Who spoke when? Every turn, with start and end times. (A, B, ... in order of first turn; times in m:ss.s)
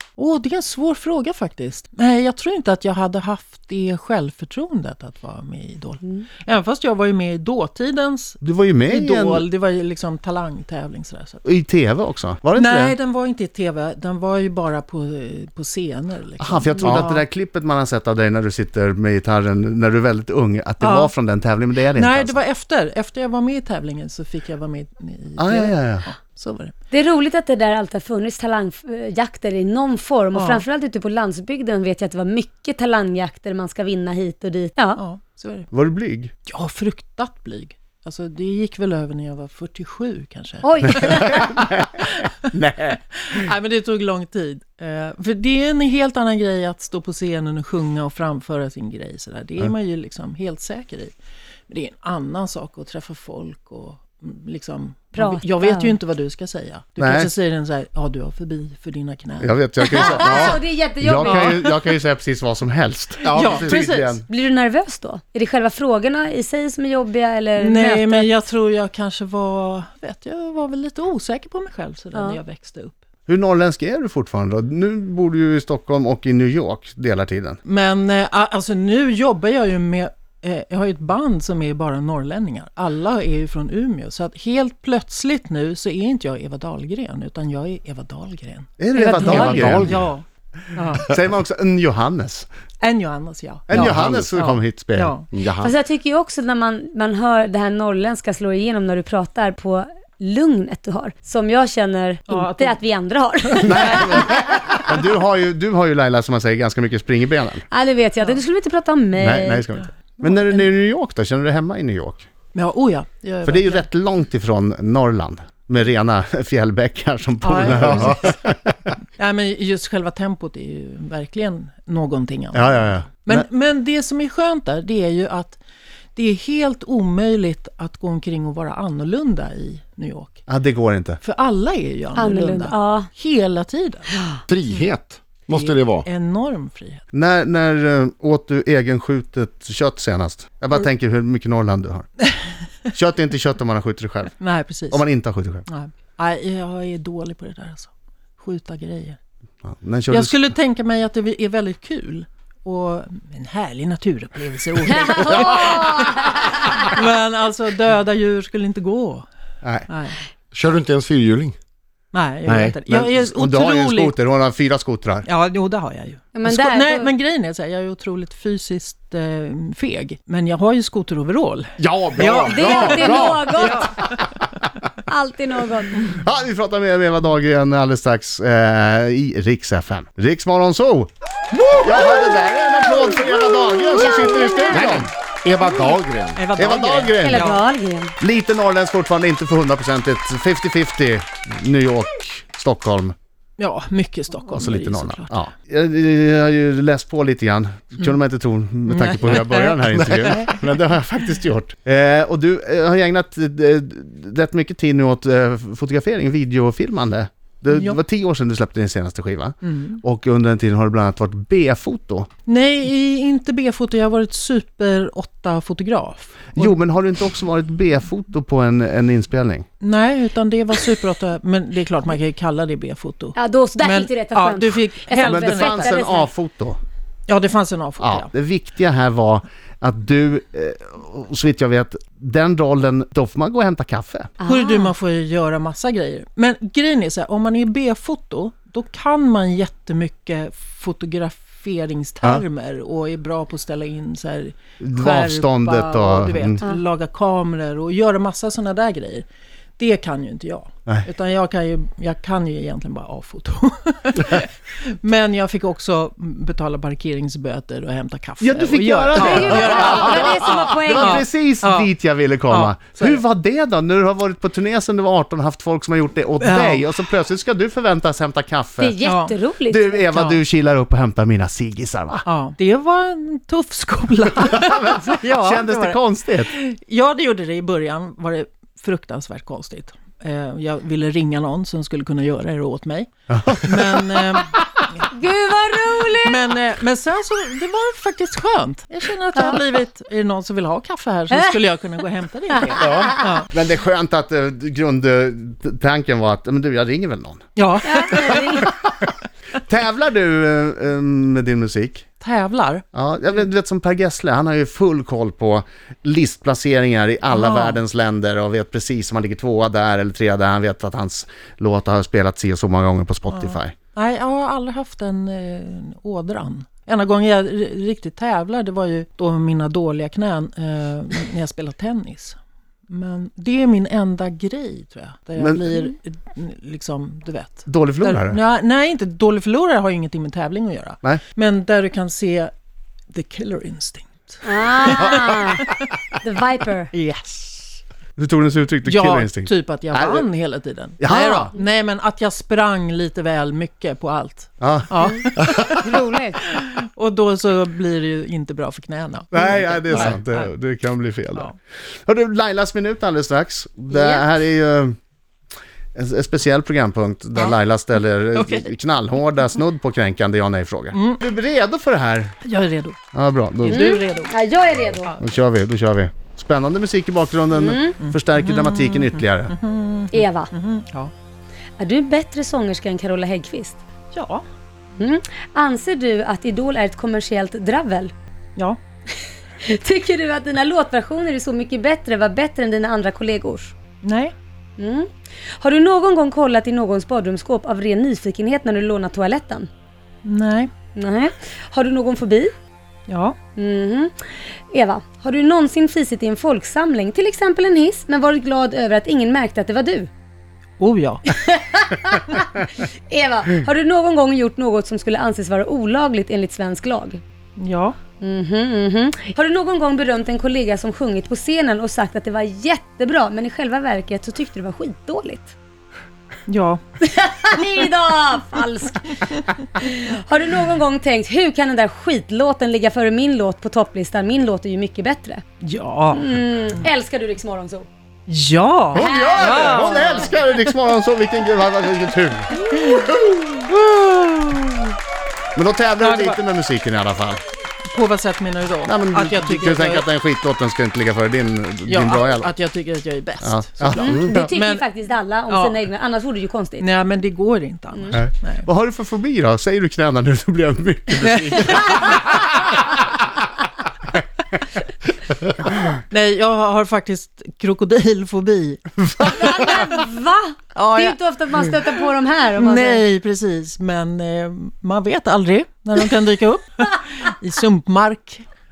0:00.2-0:11.4 A
0:08.4-0:09.4 B
0:11.4-0:13.0 B
0:12.5-0:17.2 A
0:16.4-0:22.3 B
0:20.8-0:21.1 A
0:21.9-0:26.7 A
0:25.4-0:26.0 B
0:26.9-0:35.0 C
0:30.3-0:30.6 A
0:35.0-0:35.7 A
0:35.7-0:36.3 B
0:36.4-0:42.4 A
0:40.6-0:41.4 C
0:41.1-0:43.4 B
0:43.2-0:51.1 A
0:51.7-1:00.4 A
0:55.2-0:56.0 C
0:57.0-0:57.3 B
0:59.4-1:04.2 B
0:59.9-1:01.6 C
1:01.2-1:01.7 A
1:03.2-1:04.2 A
1:03.3-1:03.8 D
1:04.3-1:08.3 C
1:07.6-1:13.0 A
1:13.3-1:17.6 B
1:17.6-1:31.1 A
1:28.8-1:30.0 B
1:28.9-1:29.8 C
1:29.2-1:30.0 D
1:30.9-1:32.5 B
1:32.8-1:35.3 A
1:33.7-1:35.1 B
1:33.7-1:34.3 D
1:35.3-1:35.7 D
1:35.6-1:44.4 C
1:42.3-1:42.8 A
1:43.6-1:44.2 A
1:43.6-1:47.6 B
1:47.7-1:49.7 C
1:49.2-1:52.2 B
1:50.2-1:50.5 A
1:52.5-1:53.9 A
1:53.4-1:58.7 B
1:57.4-1:58.3 A
1:57.7-1:58.2 D
1:59.2-2:05.6 A
2:02.5-2:03.4 B
2:06.1-2:10.4 A
2:10.5-2:11.2 B
2:11.2-2:14.2 A
2:12.2-2:13.1 C
2:14.1-2:14.4 C
2:14.5-2:16.0 D
2:15.5-2:17.0 A
2:17.1-2:22.1 B
2:22.9-2:24.3 B
2:24.4-2:25.1 A
2:24.9-2:25.6 B
2:25.6-2:29.2 A
2:29.6-2:30.5 B
2:30.1-2:39.3 A
2:34.9-2:36.8 C
2:39.9-2:40.2 A
2:40.5-2:41.6 D
2:42.1-2:44.1 A
2:42.5-2:42.8 D
2:42.9-2:45.3 B
2:45.2-2:54.5 A
2:46.3-2:47.1 C
2:51.8-2:53.6 D
2:52.4-2:53.9 C
2:55.0-2:56.1 C
2:56.1-3:01.1 B
3:01.7-3:05.1 B
3:04.2-3:04.9 C
3:04.7-3:06.4 D
3:06.3-3:07.6 A
3:06.6-3:07.5 B
3:07.2-3:08.1 C
3:08.2-3:13.1 B
3:13.6-3:15.5 A
3:14.5-3:32.3 B
3:18.9-3:20.6 A
3:27.7-3:28.0 A
3:29.6-3:30.0 A
3:32.4-3:36.8 A
3:36.5-3:39.6 B
3:39.8-3:46.0 A
3:43.3-3:46.3 C
3:45.2-3:46.8 B
3:47.3-3:48.3 A
3:48.0-3:54.3 B
3:54.4-3:54.9 C
3:54.4-4:09.3 A
4:04.8-4:06.6 B
4:09.8-4:21.9 A
4:18.4-4:29.0 B
4:19.1-4:21.2 C
4:22.4-4:23.2 A
4:26.4-4:26.8 A
4:28.8-4:30.0 C
4:29.0-4:29.4 A
4:29.7-4:32.2 B
4:30.1-4:30.4 A
4:32.2-4:45.1 A
4:34.4-4:36.5 B
4:43.3-4:44.4 B
4:45.1-4:46.4 C
4:46.2-4:53.5 A
4:51.3-4:51.6 C
4:52.6-4:53.4 C
4:52.8-4:57.4 B
4:57.6-4:58.7 A
4:57.8-4:58.7 C
4:59.7-5:02.0 B
5:02.2-5:02.8 A
5:02.9-5:13.7 B
5:07.3-5:07.8 A
5:13.3-5:22.4 A
5:22.9-5:32.5 A
5:25.4-5:25.7 B
5:27.6-5:28.4 B
5:33.1-5:35.9 A
5:34.4-5:35.7 C
5:36.2-5:36.9 C
5:36.9-5:37.8 A
5:38.2-5:40.2 B
5:38.8-5:50.5 A
5:41.0-5:41.5 B
5:44.6-5:45.0 B
5:45.0-5:46.4 C
5:49.3-5:51.5 B
5:52.0-5:54.9 B
5:53.9-5:54.2 A
5:55.9-6:02.3 B
5:58.3-5:58.7 A
6:00.9-6:01.2 A
6:02.4-6:03.0 A
6:03.1-6:03.9 B
6:03.6-6:05.2 C
6:03.6-6:04.3 A
6:05.2-6:09.5 B
6:07.5-6:08.0 C
6:08.0-6:11.1 A
6:10.1-6:10.5 C
6:11.8-6:13.8 C
6:14.1-6:14.4 A
6:15.0-6:18.1 C
6:19.6-6:23.7 C
6:24.0-6:24.3 A
6:24.8-6:29.7 C
6:30.2-6:30.7 A
6:30.9-6:32.5 C
6:33.1-6:33.4 A
6:33.6-6:40.1 C
6:40.8-6:41.3 A
6:41.3-6:47.2 C
6:47.6-6:48.0 A
6:48.2-6:55.5 C
6:56.5-6:56.8 A
6:57.0-7:05.4 C
7:05.6-7:06.3 A
7:06.1-7:07.9 C
7:08.3-7:10.2 A
7:08.9-7:13.3 B
7:08.9-7:10.3 C
7:12.5-7:14.9 A
7:15.5-7:17.4 B
7:16.0-7:16.4 A
7:17.9-7:20.0 A
7:18.8-7:22.5 B
7:21.9-7:24.8 A
7:23.4-7:24.5 B
7:23.9-7:26.9 C
7:25.5-7:25.8 A
7:26.8-7:28.7 A
7:28.1-7:32.4 B
7:31.2-7:32.4 A
7:35.9-7:39.7 A
7:39.1-7:39.9 B
7:39.4-7:43.0 C
7:40.7-7:41.2 A
7:42.6-7:48.4 A